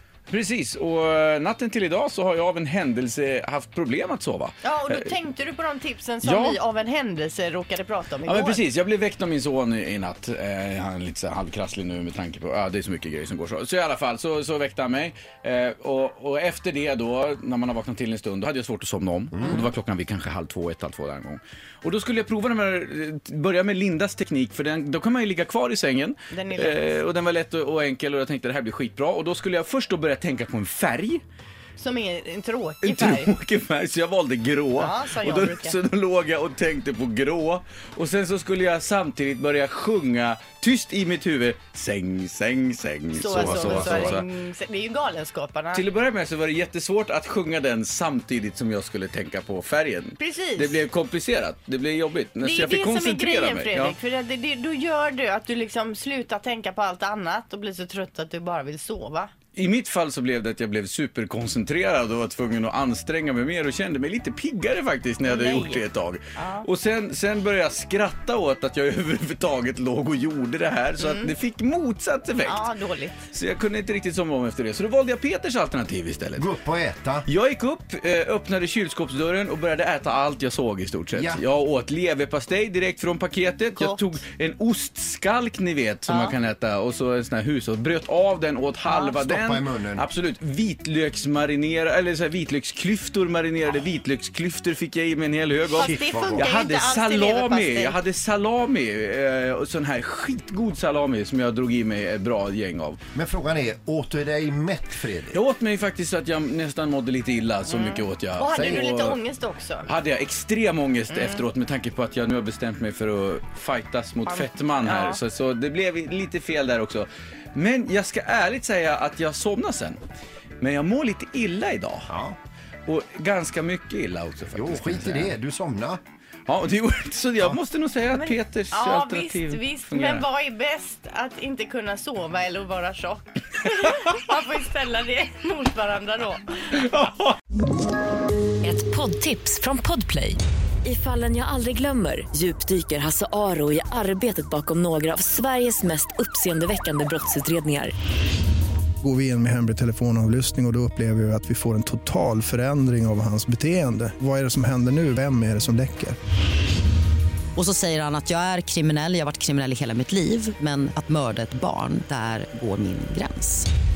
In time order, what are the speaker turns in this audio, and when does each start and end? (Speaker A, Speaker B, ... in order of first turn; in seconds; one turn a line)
Speaker A: 0.3-5.1
Speaker B: 4.6-8.6
Speaker A: 6.2-6.6
Speaker A: 8.2-31.2
Speaker B: 26.3-26.9
Speaker B: 31.8-33.3
Speaker A: 32.8-44.2
Speaker B: 34.8-35.8
Speaker B: 43.1-45.8
Speaker C: 43.3-44.2
Speaker A: 45.7-54.0
Speaker B: 50.2-50.8
Speaker B: 52.4-59.3
Speaker A: 59.5-72.7
Speaker B: 65.2-65.8
Speaker B: 66.3-66.7
Speaker B: 71.0-71.3
Speaker B: 72.4-73.2
Speaker A: 73.3-76.5
Speaker C: 76.4-77.2
Speaker A: 77.2-103.0
Speaker C: 81.1-81.4
Speaker B: 83.8-84.0
Speaker B: 86.1-86.3
Speaker C: 88.9-90.1
Speaker B: 95.7-98.0
Speaker C: 95.7-96.5
Speaker C: 103.1-105.4
Speaker A: 105.3-109.2
Speaker B: 107.7-109.9
Speaker A: 109.8-120.0
Speaker B: 111.1-111.4
Speaker B: 114.3-115.2
Speaker A: 120.6-122.1
Speaker C: 122.1-122.4
Speaker A: 122.9-125.3
Speaker C: 124.5-126.0
Speaker A: 126.5-130.2
Speaker B: 128.1-136.9
Speaker D: 138.6-147.9
Speaker E: 149.0-156.2
Speaker F: 157.6-163.7